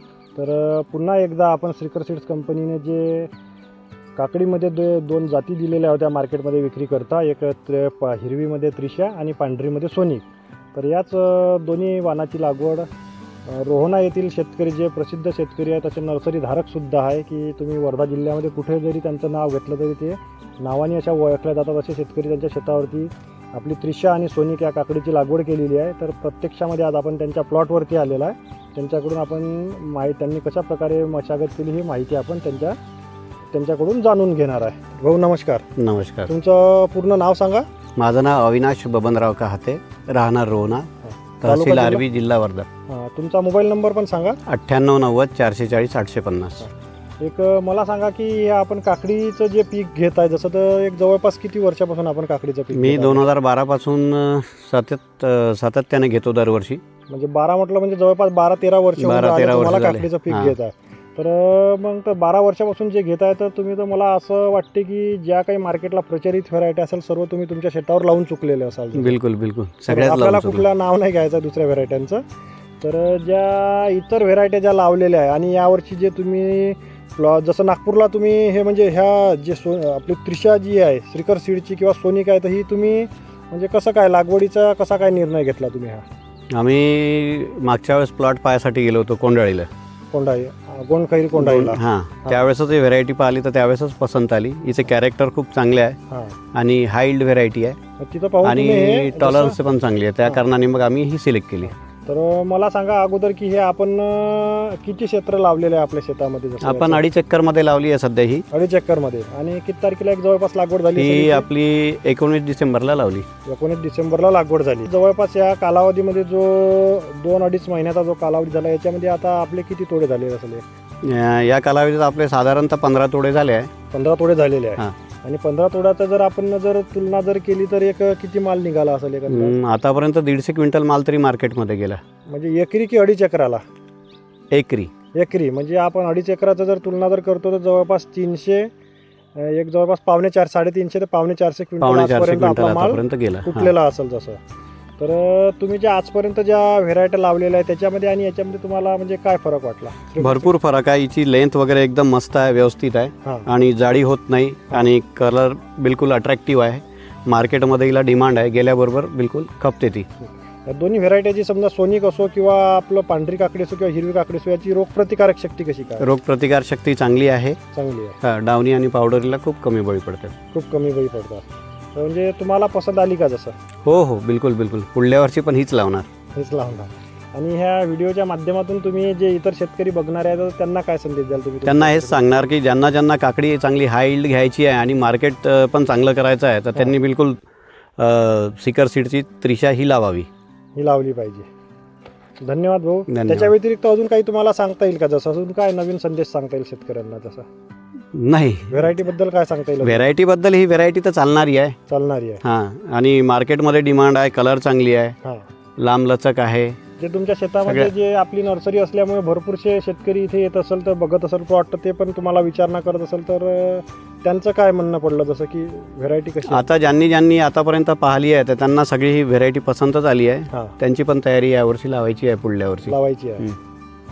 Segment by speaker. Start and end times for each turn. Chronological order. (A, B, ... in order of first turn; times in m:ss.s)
0:00.4-0:03.3 A
0:04.2-0:12.9 A
0:13.5-0:32.8 A
0:33.5-0:35.6 A
0:35.8-0:36.3 B
0:36.3-0:37.7 A
0:38.0-0:40.9 B
0:41.0-0:42.0 A
0:41.4-0:42.7 B
0:42.9-0:44.4 A
0:44.5-0:46.6 B
0:46.6-0:53.2 A
0:52.7-0:56.8 B
0:57.1-1:09.2 A
0:59.0-1:00.6 B
1:09.0-1:10.6 B
1:09.9-1:12.2 A
1:12.8-1:26.0 A
1:26.5-1:29.7 B
1:30.1-1:32.4 A
1:31.4-1:36.0 B
1:36.1-1:36.4 A
1:36.5-1:37.8 B
1:38.0-1:39.6 A
1:38.4-1:41.7 B
1:41.6-1:47.0 A
1:46.6-1:48.5 B
1:48.5-1:51.5 A
1:51.0-1:53.3 B
1:53.5-2:00.6 A
2:01.0-2:03.7 B
2:03.9-2:09.6 A
2:09.3-2:12.0 B
2:12.3-2:13.6 A
2:14.5-2:14.9 B
2:15.2-2:18.7 A
2:19.4-2:24.4 A
2:21.8-2:23.7 B
2:25.0-2:30.5 A
2:30.2-2:40.1 B
2:40.3-2:46.1 A
2:46.0-2:47.6 B
2:47.7-2:48.2 A
2:48.2-2:50.4 B
2:50.5-2:53.6 A
2:53.9-2:56.1 B
2:56.3-3:02.2 A
3:01.6-3:07.4 B
3:08.0-3:10.3 B
3:10.8-3:11.5 A
3:12.4-3:17.5 A
3:13.1-3:13.5 B
3:18.1-3:18.9 B
3:18.7-3:20.1 A
3:19.8-3:21.8 B
3:21.9-3:22.4 A
3:22.4-3:25.2 B
3:25.8-3:26.8 B
3:27.0-3:36.7 A
3:27.7-3:27.9 B
3:36.5-3:43.5 B
3:42.9-3:43.5 A